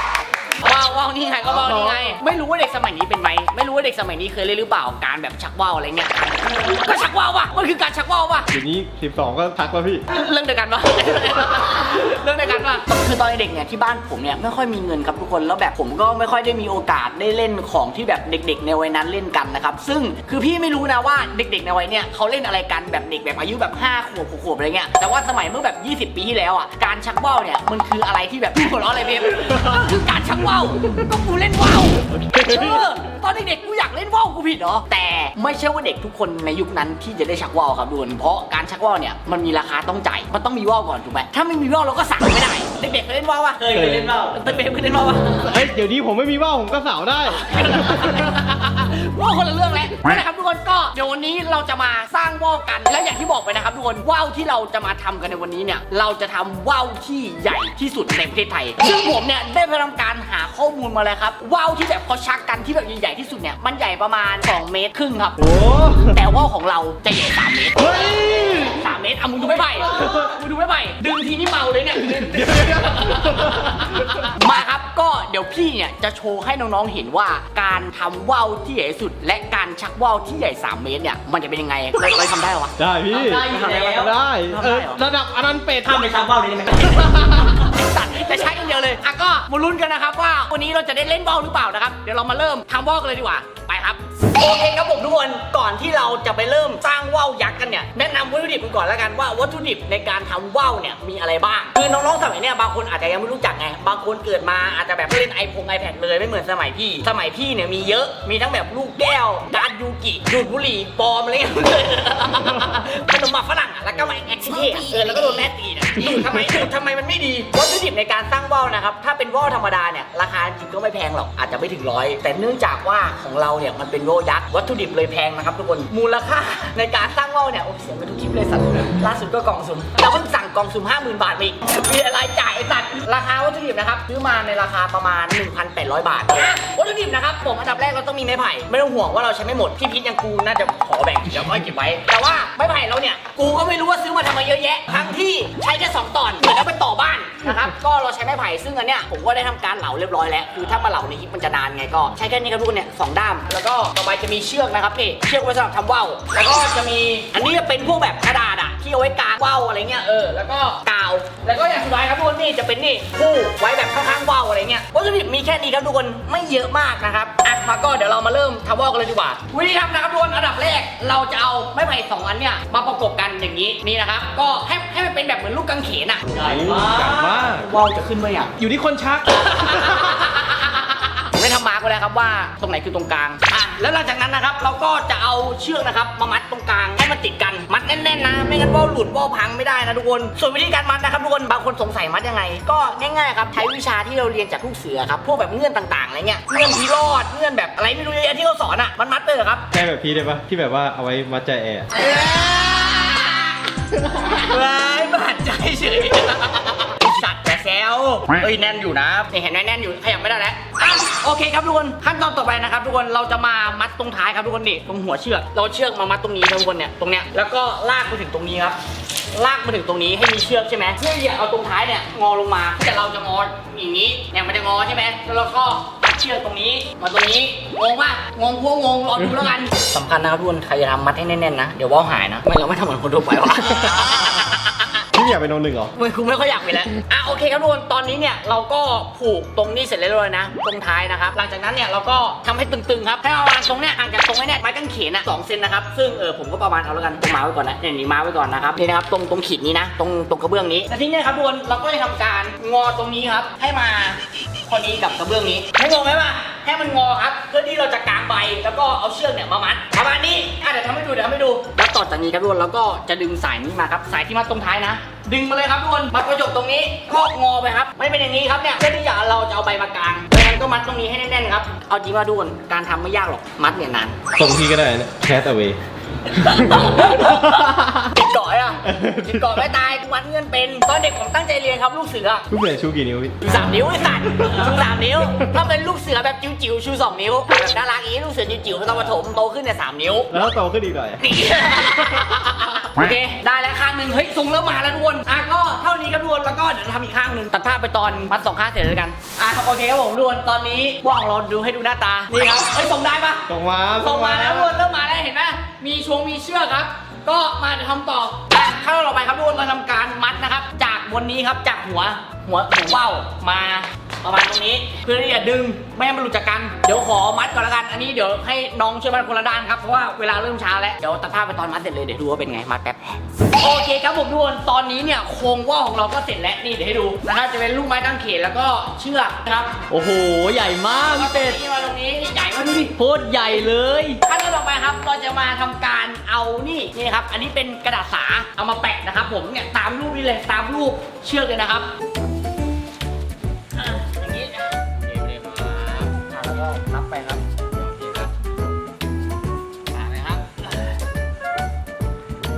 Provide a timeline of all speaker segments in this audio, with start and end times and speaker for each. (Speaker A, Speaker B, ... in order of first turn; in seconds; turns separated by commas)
Speaker A: 0.6-8.5, Speaker B: 8.5-10.0, Speaker A: 10.1-45.5, Speaker C: 43.7-44.3, Speaker B: 43.7-44.1, Speaker B: 45.4-48.2, Speaker A: 47.4-82.7, Speaker B: 65.4-66.2, Speaker B: 67.8-68.8, Speaker B: 72.2-74.2, Speaker B: 82.8-85.9, Speaker C: 83.1-85.1, Speaker A: 83.3-85.0, Speaker C: 85.8-87.4, Speaker A: 86.8-178.6, Speaker C: 176.3-177.4, Speaker B: 176.7-177.7, Speaker B: 178.6-179.2, Speaker A: 179.3-199.7, Speaker B: 199.7-201.9, Speaker A: 201.9-218.8, Speaker A: 219.3-235.0, Speaker B: 235.1-235.9, Speaker A: 235.9-274.2, Speaker B: 274.3-275.8, Speaker A: 276.3-282.4, Speaker B: 276.4-276.9, Speaker B: 277.6-277.9, Speaker B: 278.9-279.5, Speaker B: 282.5-283.4, Speaker A: 283.4-290.3, Speaker B: 290.3-291.2, Speaker A: 291.2-303.4, Speaker B: 303.5-304.7, Speaker A: 304.0-329.8, Speaker C: 329.9-331.6, Speaker A: 331.0-341.9, Speaker C: 333.0-334.1, Speaker A: 343.7-348.3, Speaker A: 349.9-350.9